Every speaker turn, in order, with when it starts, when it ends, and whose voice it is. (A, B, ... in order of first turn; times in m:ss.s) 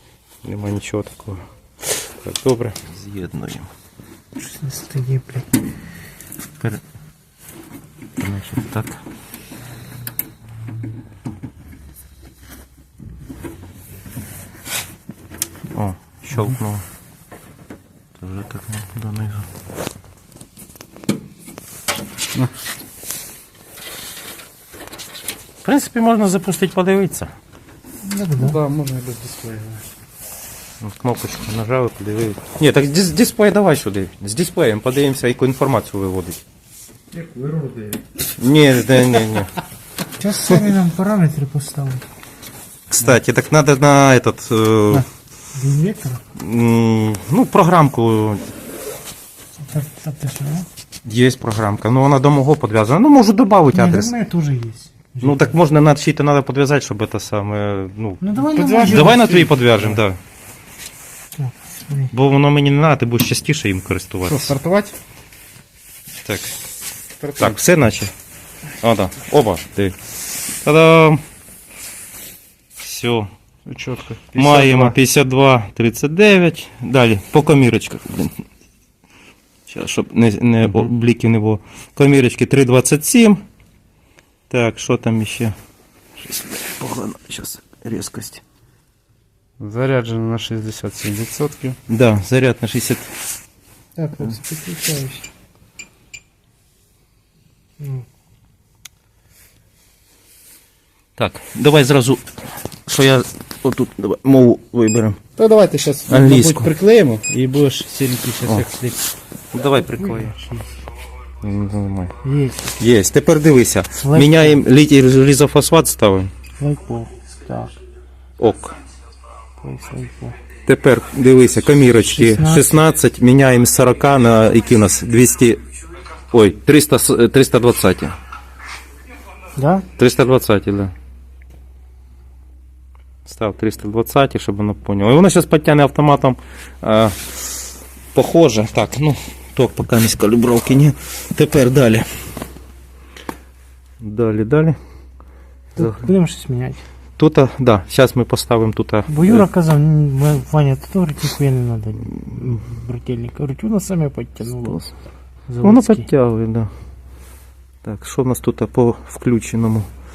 0:00.4-0:03.7 A
0:04.4-0:05.6 B
0:08.2-0:09.0 A
0:15.7-0:16.8 A
0:18.2-0:19.5 A
0:25.6-0:27.3 A
0:28.0-0:28.6 B
0:28.4-0:29.8 C
0:30.8-0:36.4 A
0:37.1-0:38.0 C
0:38.4-0:39.6 A
0:40.2-0:42.1 B
0:42.9-0:45.0 A
0:45.5-0:46.2 B
0:46.4-0:48.5 A
0:49.6-0:50.7 B
0:51.0-0:54.1 A
0:53.7-0:55.5 B
0:55.2-0:58.3 A
0:58.2-0:59.3 B
0:58.5-1:00.0 C
0:58.8-1:00.2 A
1:01.4-1:02.1 B
1:02.1-1:04.6 A
1:04.3-1:05.0 C
1:06.2-1:06.6 A
1:07.2-1:07.6 C
1:07.4-1:08.1 A
1:08.8-1:10.0 A
1:10.6-1:11.2 A
1:12.8-1:13.3 A
1:13.7-1:15.0 C
1:14.4-1:18.4 A
1:19.7-1:23.4 A
1:24.5-1:25.6 A
1:26.2-1:28.4 A
1:29.6-1:31.8 C
1:31.9-1:33.1 A
1:34.0-1:35.3 B
1:37.8-1:38.1 B
1:41.2-1:42.3 A
1:42.9-1:45.2 A
1:45.4-1:49.1 C
1:46.1-1:46.7 A
1:49.5-1:50.4 A
1:50.0-1:50.7 B
1:51.4-1:52.2 A
1:52.2-1:52.8 B
1:52.8-1:56.3 A
1:54.0-1:54.6 B
1:56.6-1:57.8 B
1:58.4-1:58.8 A
1:59.6-2:00.4 B
2:00.6-2:05.6 A
2:02.1-2:02.8 B
2:06.2-2:08.2 A
2:09.6-2:09.9 B
2:10.0-2:10.9 A
2:13.2-2:17.4 A
2:18.1-2:22.1 A
2:24.0-2:24.8 A
2:25.8-2:26.8 B
2:25.8-2:26.1 A
2:27.2-2:29.5 A
2:29.1-2:34.8 B
2:34.6-2:34.9 A
2:35.5-2:36.1 B
2:35.6-2:36.7 A
2:37.8-2:39.9 A